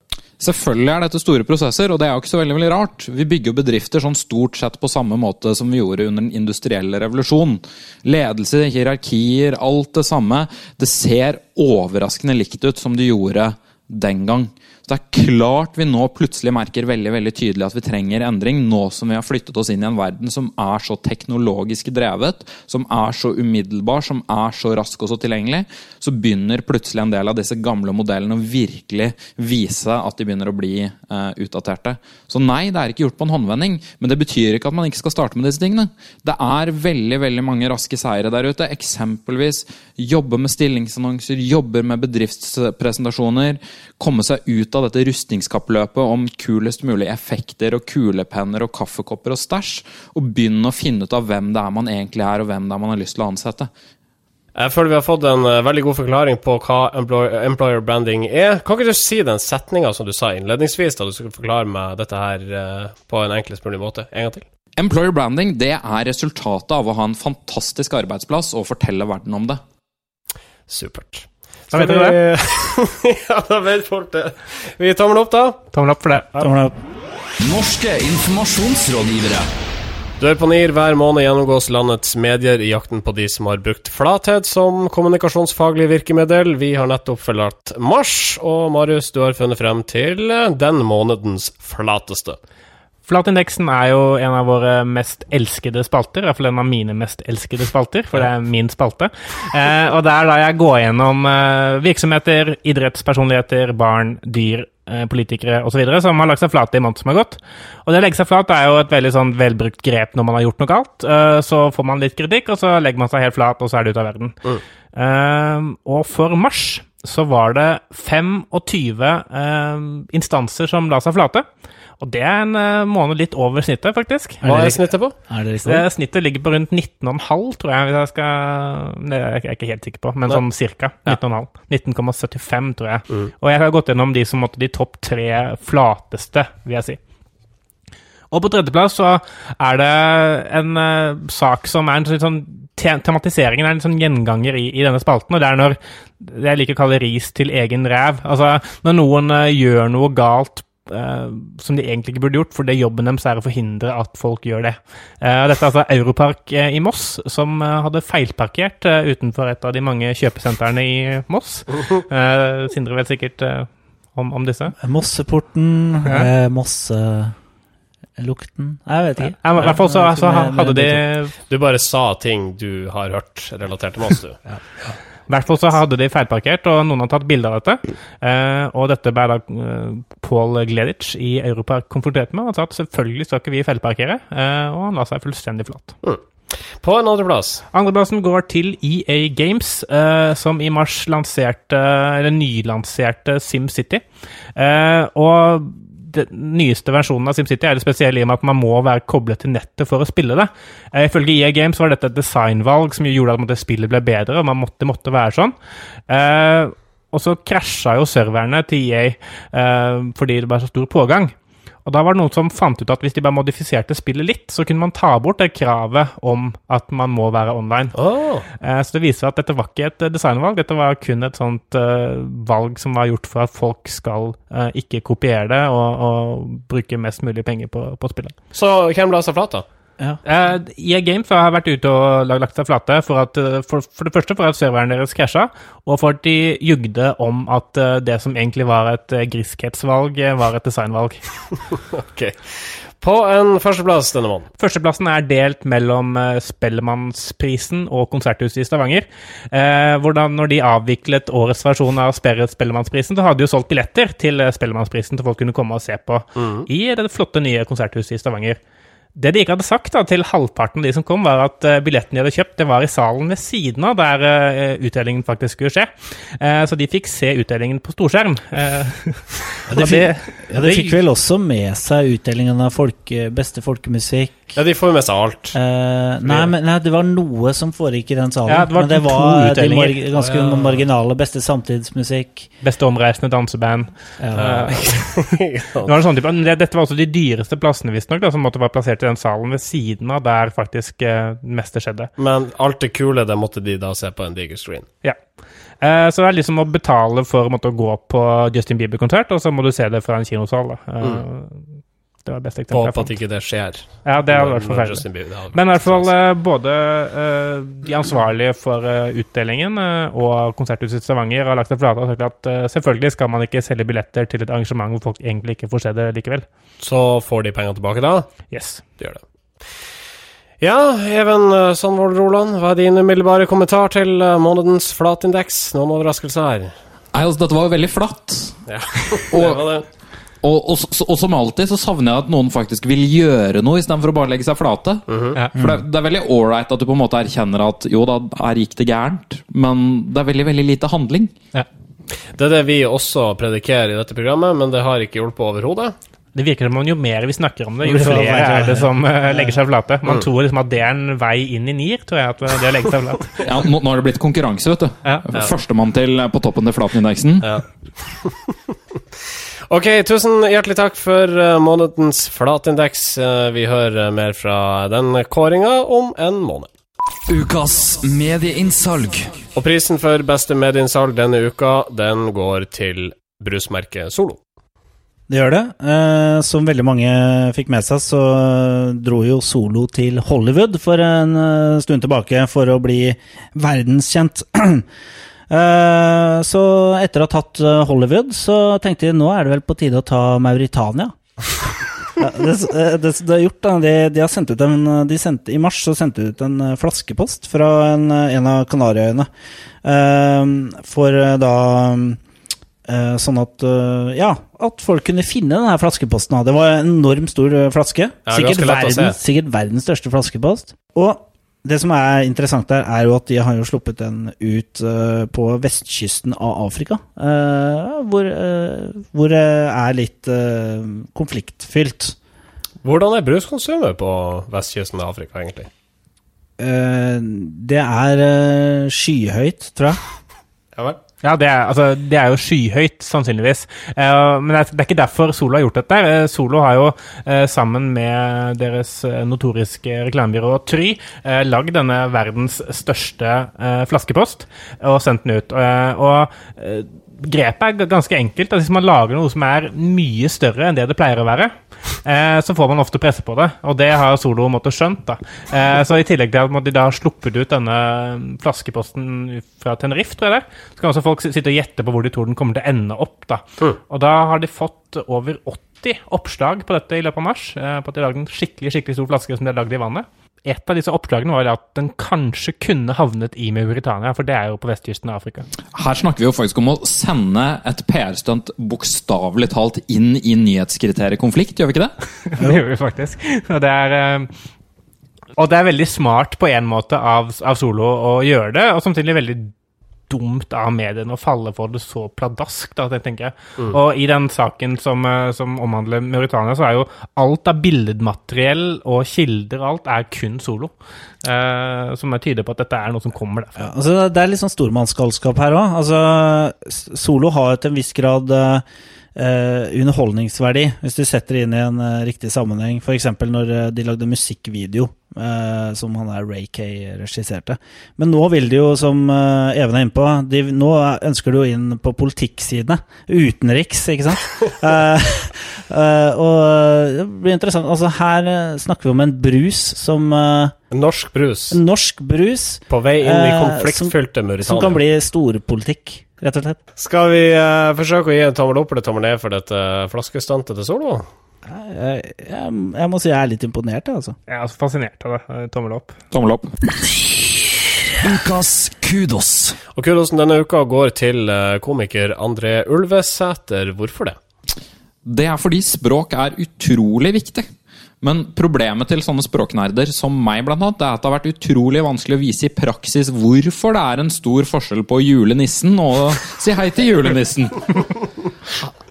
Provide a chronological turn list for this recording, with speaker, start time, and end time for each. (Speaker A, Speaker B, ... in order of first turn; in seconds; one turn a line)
Speaker A: 0.4-53.7
Speaker B: 54.5-64.4
Speaker A: 64.8-69.6
Speaker B: 70.7-75.6
Speaker C: 71.7-72.2
Speaker C: 75.7-76.5
Speaker D: 76.4-76.7
Speaker E: 77.4-79.5
Speaker B: 80.2-92.4
Speaker C: 93.1-114.3
Speaker C: 114.9-121.5
Speaker C: 122.0-124.8
Speaker B: 124.4-125.1
Speaker D: 125.3-125.8
Speaker C: 125.7-137.0
Speaker C: 138.3-164.8
Speaker D: 164.8-167.4
Speaker D: 168.2-171.0
Speaker C: 169.4-171.3
Speaker B: 171.5-174.4
Speaker C: 175.3-185.9
Speaker B: 186.0-187.6
Speaker C: 187.7-194.0
Speaker C: 194.6-205.5
Speaker C: 206.1-211.3
Speaker C: 211.8-217.9
Speaker B: 217.9-218.5
Speaker C: 218.6-228.4
Speaker B: 228.5-229.7
Speaker C: 230.2-241.2
Speaker B: 241.9-244.5
Speaker C: 244.6-258.6
Speaker B: 256.4-256.7
Speaker C: 259.2-271.0
Speaker D: 269.7-274.6
Speaker B: 274.6-275.6
Speaker D: 275.5-282.5
Speaker C: 278.5-280.1
Speaker B: 280.2-280.8
Speaker C: 282.6-285.2
Speaker D: 284.2-284.8
Speaker B: 284.4-285.9
Speaker C: 285.8-292.1
Speaker B: 292.2-294.9
Speaker C: 295.8-301.6
Speaker C: 302.2-303.2
Speaker B: 302.7-306.1
Speaker C: 304.1-316.5
Speaker B: 316.8-318.3
Speaker C: 318.5-318.8
Speaker B: 320.6-326.7
Speaker A: 327.1-328.6
Speaker B: 328.7-329.9
Speaker A: 329.3-329.8
Speaker A: 330.4-341.3
Speaker B: 335.1-335.4
Speaker D: 335.6-335.8
Speaker B: 342.3-346.0
Speaker C: 346.4-353.4
Speaker D: 347.8-349.5
Speaker A: 353.4-357.6
Speaker B: 357.4-358.5
Speaker B: 359.7-366.7
Speaker E: 367.3-369.4
Speaker B: 369.6-374.4
Speaker D: 375.3-384.9
Speaker D: 385.5-391.1
Speaker D: 392.1-399.3
Speaker D: 399.8-402.2
Speaker D: 402.9-422.2
Speaker B: 408.3-409.2
Speaker B: 422.8-425.7
Speaker D: 426.6-430.0
Speaker C: 431.2-475.5
Speaker A: 475.7-481.9
Speaker C: 482.4-484.3
Speaker C: 485.4-489.5
Speaker C: 490.1-503.7
Speaker D: 503.6-530.5
Speaker B: 530.7-531.6
Speaker D: 531.5-536.6
Speaker B: 532.7-534.8
Speaker B: 536.8-541.1
Speaker D: 541.5-544.2
Speaker C: 544.3-546.0
Speaker A: 546.1-546.5
Speaker E: 546.8-549.6
Speaker B: 549.8-554.2
Speaker A: 555.0-557.5
Speaker A: 558.0-568.0